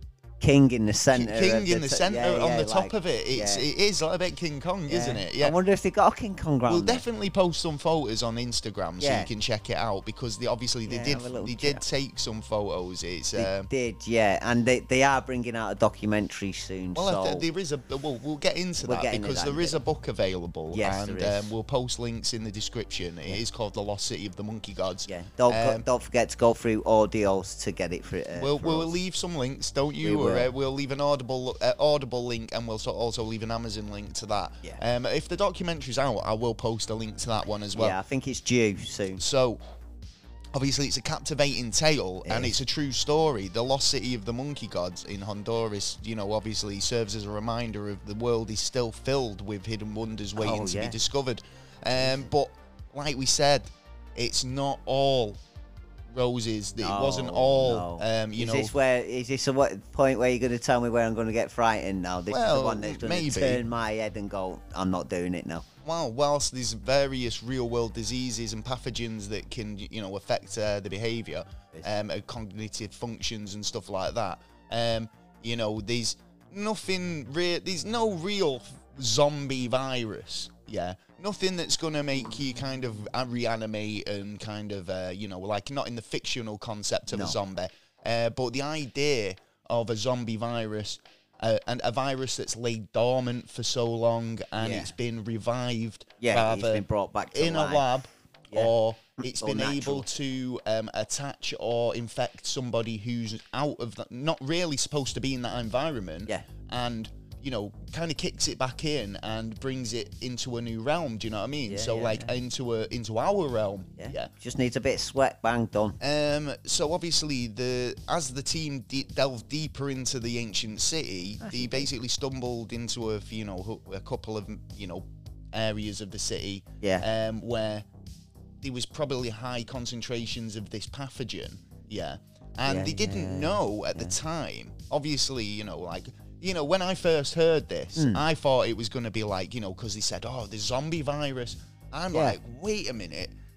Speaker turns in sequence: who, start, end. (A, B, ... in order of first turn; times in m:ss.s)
0:00.4-0:03.6 A
0:01.1-0:05.6 B
0:04.9-0:07.0 A
0:06.7-0:13.7 B
0:09.0-0:09.3 A
0:10.8-0:11.8 A
0:13.4-0:17.4 A
0:16.9-0:25.8 B
0:18.8-0:19.8 A
0:20.7-0:21.5 A
0:25.1-0:28.9 A
0:28.3-0:38.0 B
0:30.0-0:30.5 A
0:37.7-0:39.2 A
0:39.2-0:39.6 B
0:40.5-0:55.4 B
0:42.2-0:42.5 A
0:50.4-0:51.0 A
0:52.0-0:52.3 A
0:56.1-0:58.7 B
0:56.8-1:05.6 A
1:02.3-1:03.6 B
1:05.8-1:54.3 B
1:27.1-1:27.4 A
1:34.6-1:34.9 A
1:36.2-1:37.9 A
1:38.5-1:40.1 A
1:51.7-1:52.3 A
1:54.0-1:56.0 A
1:56.0-2:07.8 B
2:01.4-2:01.9 A
2:06.8-2:07.1 A
2:08.6-2:23.3 B
2:12.6-2:14.2 A
2:18.0-2:18.2 A
2:22.1-2:22.4 A